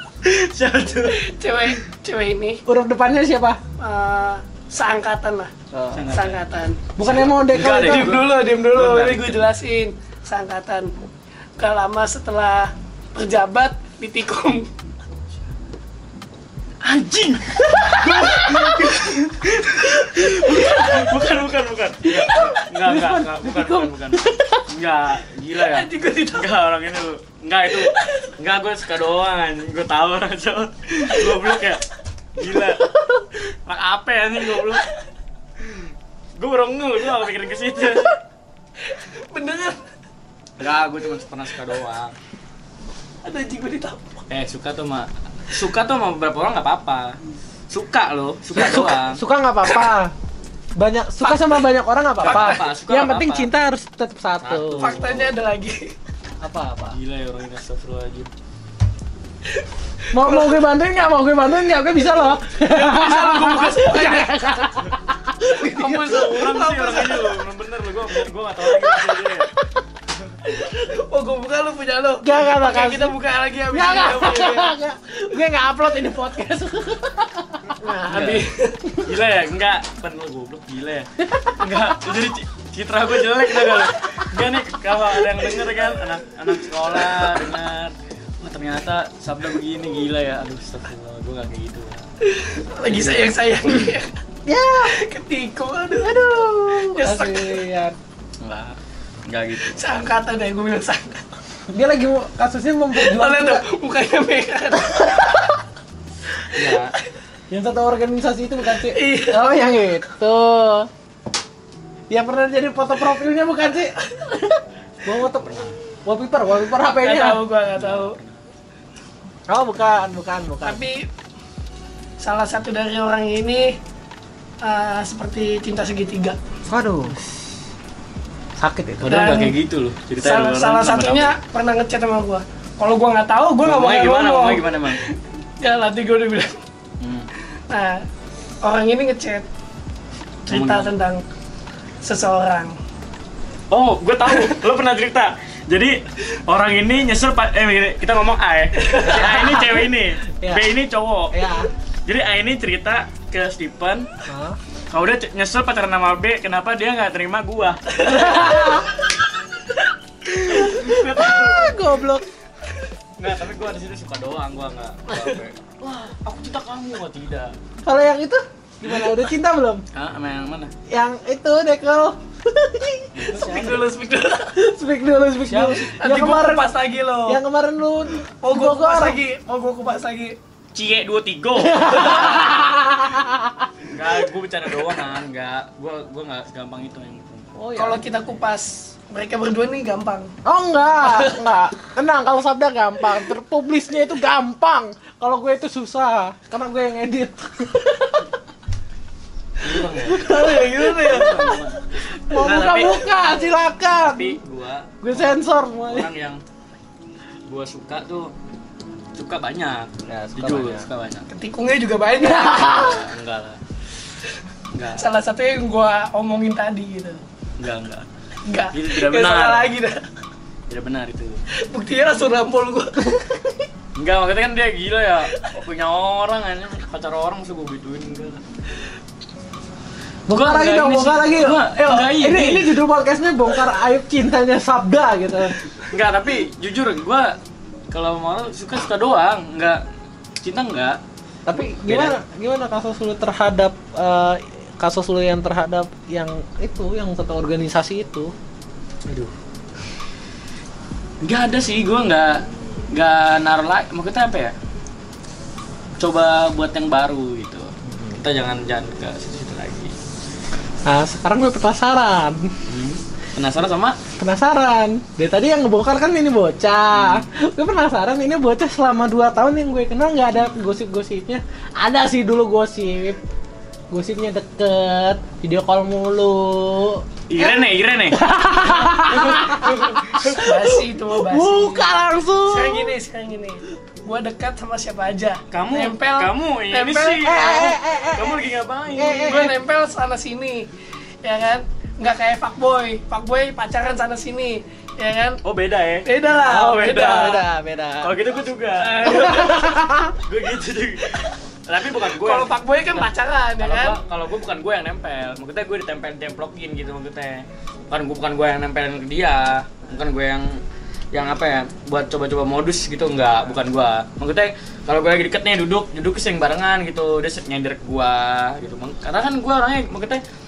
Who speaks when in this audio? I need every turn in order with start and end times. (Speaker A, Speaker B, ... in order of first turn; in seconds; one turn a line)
Speaker A: 0.2-1.2
Speaker B: 1.1-2.6
Speaker C: 2.6-3.6
Speaker B: 3.8-5.5
Speaker C: 5.7-6.0
Speaker A: 5.9-9.5
Speaker B: 6.1-6.8
Speaker C: 7.0-8.1
Speaker B: 7.5-10.9
Speaker B: 11.6-14.7
Speaker A: 16.8-34.9
Speaker C: 17.9-19.0
Speaker B: 20.6-20.9
Speaker C: 22.8-24.6
Speaker B: 25.6-26.5
Speaker B: 27.9-28.3
Speaker A: 36.4-38.2
Speaker B: 38.8-39.8
Speaker A: 40.6-42.1
Speaker B: 43.2-44.2
Speaker A: 44.3-47.2
Speaker A: 47.7-49.2
Speaker C: 48.5-50.1
Speaker C: 50.8-54.9
Speaker A: 51.2-51.6
Speaker A: 52.2-53.5
Speaker B: 52.3-52.6
Speaker A: 54.4-55.3
Speaker B: 54.8-55.9
Speaker C: 56.4-57.0
Speaker A: 56.9-58.3
Speaker C: 60.1-66.5
Speaker B: 60.1-60.6
Speaker A: 62.7-64.1
Speaker B: 62.8-64.4
Speaker B: 65.5-67.4
Speaker A: 65.6-69.5
Speaker B: 70.4-74.7
Speaker C: 72.2-73.1
Speaker C: 73.7-77.7
Speaker B: 77.8-78.9
Speaker A: 78.1-78.5
Speaker A: 79.0-92.0
Speaker B: 92.2-94.1
Speaker A: 92.8-93.3
Speaker C: 94.5-95.0
Speaker B: 94.8-97.6
Speaker C: 96.0-98.0
Speaker A: 98.4-99.8
Speaker B: 99.6-101.2
Speaker C: 101.7-103.6
Speaker B: 102.9-105.6
Speaker A: 106.5-106.9
Speaker C: 107.5-110.9
Speaker B: 108.7-109.5
Speaker C: 112.1-114.0
Speaker C: 115.0-117.4
Speaker A: 115.4-115.8
Speaker B: 117.0-118.2
Speaker A: 117.7-118.4
Speaker C: 119.5-120.8
Speaker B: 120.6-121.1
Speaker B: 122.2-123.8
Speaker B: 124.6-126.4
Speaker C: 126.7-127.3
Speaker C: 128.6-129.1
Speaker A: 129.0-131.3
Speaker B: 129.1-129.6
Speaker B: 130.2-136.6
Speaker A: 133.6-135.0
Speaker A: 137.0-137.3
Speaker B: 137.7-138.0
Speaker B: 138.6-139.4
Speaker B: 140.4-141.2
Speaker A: 140.5-140.9
Speaker B: 142.0-142.7
Speaker A: 143.7-151.4
Speaker B: 148.8-149.2
Speaker C: 149.1-149.8
Speaker C: 150.4-150.7
Speaker C: 151.3-151.7
Speaker A: 152.1-154.1
Speaker C: 154.3-154.6
Speaker A: 154.9-158.5
Speaker C: 158.0-158.9
Speaker C: 160.2-162.3
Speaker A: 160.5-162.0
Speaker A: 163.2-167.6
Speaker C: 167.8-169.8
Speaker A: 169.9-170.7
Speaker C: 170.9-173.2
Speaker A: 173.1-173.9
Speaker B: 173.3-174.5
Speaker C: 174.5-176.7
Speaker A: 175.5-175.9
Speaker B: 176.0-177.4
Speaker C: 177.3-179.2
Speaker B: 178.4-180.3
Speaker A: 180.7-183.0
Speaker C: 181.6-183.7
Speaker A: 183.9-187.5
Speaker C: 187.6-188.0
Speaker B: 187.8-190.3
Speaker C: 190.4-198.3
Speaker A: 199.6-203.0
Speaker C: 200.0-204.4
Speaker B: 200.8-201.1
Speaker A: 203.9-206.4
Speaker C: 205.0-206.1
Speaker A: 207.5-208.3
Speaker A: 209.1-211.3
Speaker C: 210.1-210.8
Speaker B: 211.3-212.9
Speaker C: 212.3-212.9
Speaker A: 212.4-213.6
Speaker A: 214.7-215.0
Speaker B: 214.9-217.2
Speaker A: 217.6-218.1
Speaker B: 218.4-220.0
Speaker A: 218.7-219.7
Speaker A: 220.7-221.4
Speaker B: 221.6-223.6
Speaker A: 223.9-228.4
Speaker C: 230.3-235.8
Speaker A: 230.3-232.8
Speaker A: 235.9-237.3
Speaker A: 237.9-239.8
Speaker A: 240.4-241.0
Speaker C: 241.5-248.3
Speaker A: 241.7-242.2
Speaker A: 249.0-249.3
Speaker A: 251.2-254.5
Speaker A: 256.0-259.9
Speaker C: 260.9-262.5
Speaker A: 262.7-264.0
Speaker C: 264.2-273.2
Speaker A: 266.9-267.2
Speaker C: 273.9-277.0
Speaker A: 277.3-278.2
Speaker C: 278.1-280.3
Speaker A: 278.9-280.6
Speaker B: 279.1-281.9
Speaker C: 281.1-282.9
Speaker B: 282.5-287.7
Speaker A: 285.5-289.4
Speaker C: 287.2-289.5
Speaker B: 289.1-290.6
Speaker B: 291.2-295.4
Speaker A: 295.4-297.4
Speaker B: 296.0-297.4
Speaker C: 296.5-298.1
Speaker A: 298.0-303.1
Speaker C: 299.0-300.1
Speaker B: 302.2-304.0
Speaker A: 303.6-310.6
Speaker A: 311.1-320.2